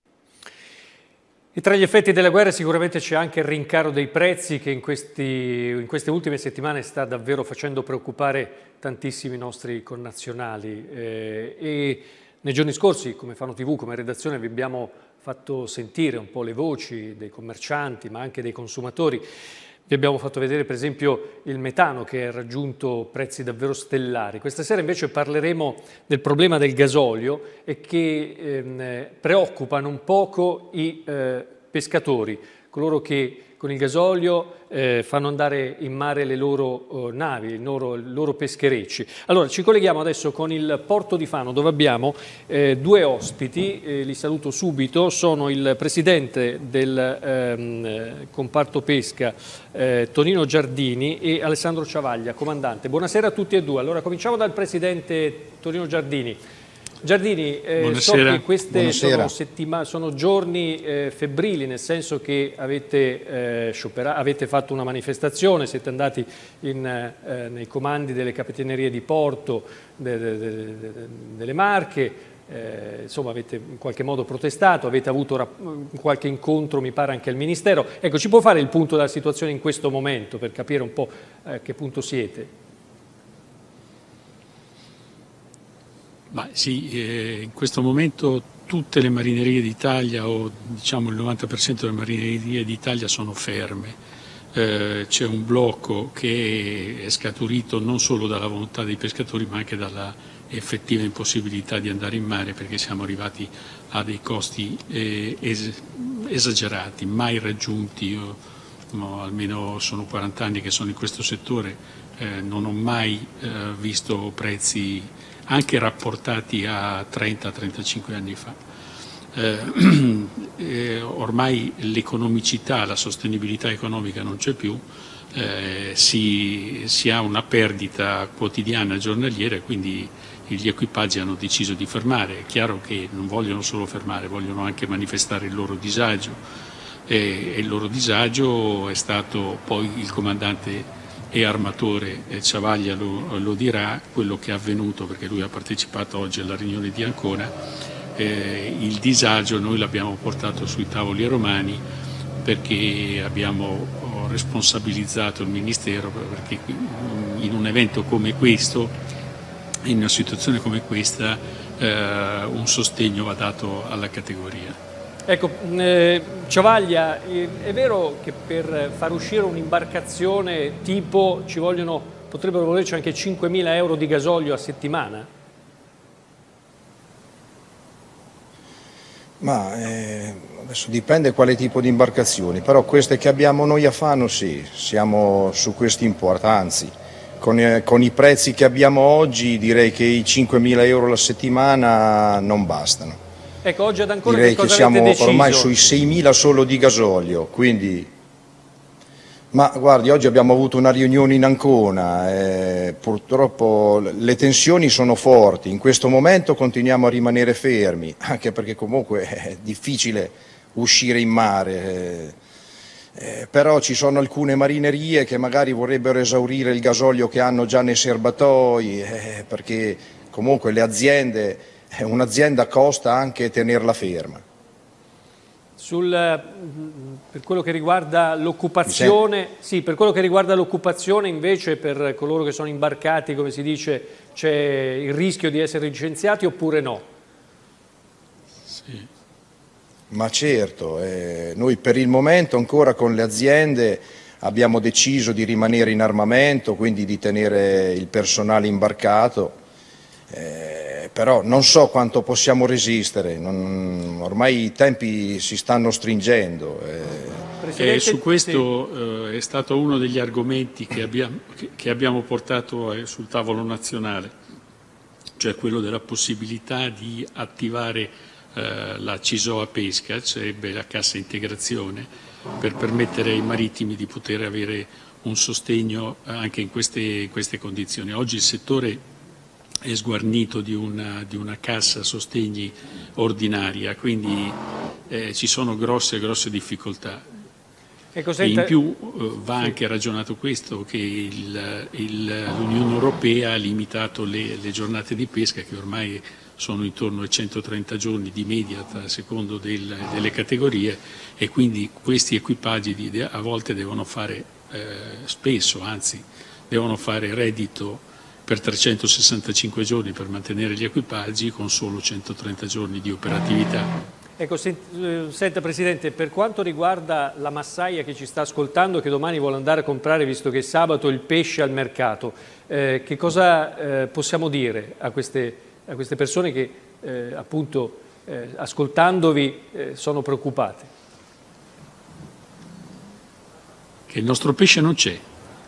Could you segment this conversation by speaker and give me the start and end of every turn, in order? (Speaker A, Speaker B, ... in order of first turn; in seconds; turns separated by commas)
Speaker A: 1.6-19.2, Speaker A: 19.9-56.4, Speaker A: 57.0-82.5, Speaker B: 57.8-58.4, Speaker C: 58.7-59.3, Speaker B: 86.3-94.0, Speaker B: 94.5-118.6, Speaker B: 119.3-136.4, Speaker B: 137.1-147.5, Speaker B: 148.2-151.8, Speaker B: 152.4-159.0, Speaker B: 159.8-164.8, Speaker A: 165.3-175.3, Speaker C: 179.4-193.2, Speaker A: 193.6-195.7, Speaker C: 194.2-198.1, Speaker C: 199.5-212.4, Speaker C: 213.2-224.4, Speaker A: 225.8-237.1, Speaker C: 228.9-229.2, Speaker B: 238.7-239.1, Speaker C: 240.1-249.6, Speaker C: 250.3-257.5, Speaker A: 257.6-258.7, Speaker B: 257.8-264.3, Speaker B: 265.4-279.0, Speaker B: 279.9-284.6, Speaker B: 285.1-287.2, Speaker A: 288.1-288.8, Speaker B: 288.4-313.9, Speaker A: 314.4-330.9, Speaker B: 334.1-335.2